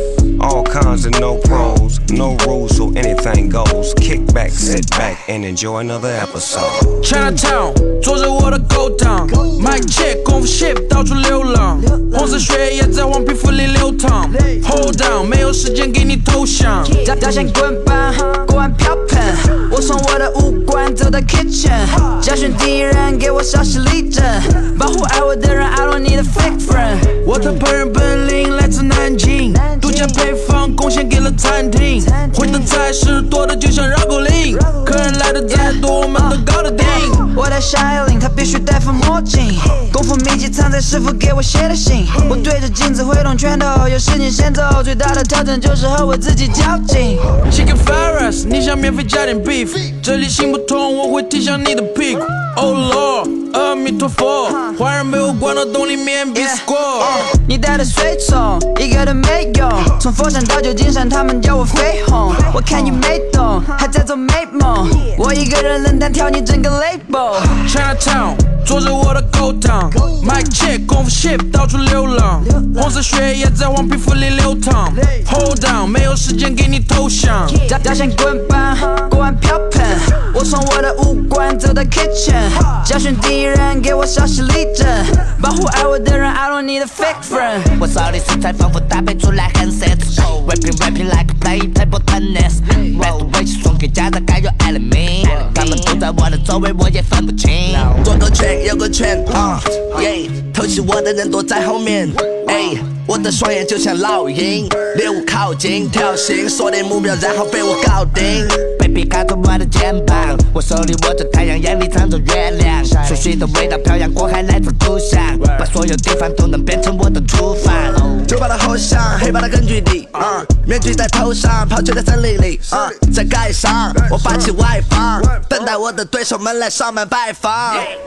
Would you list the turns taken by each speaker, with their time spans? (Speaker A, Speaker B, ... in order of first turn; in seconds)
Speaker A: 0.4-7.0
Speaker B: 7.0-17.1, 27.2-37.3, 47.5-57.3, 67.5-77.7
Speaker C: 17.0-27.5, 29.5-30.2, 32.0-32.7, 34.7-47.3, 56.4-56.7, 57.2-67.6, 77.6-87.8
Speaker D: 87.8-98.0, 108.5-118.3
Speaker E: 97.8-108.7, 118.3-127.9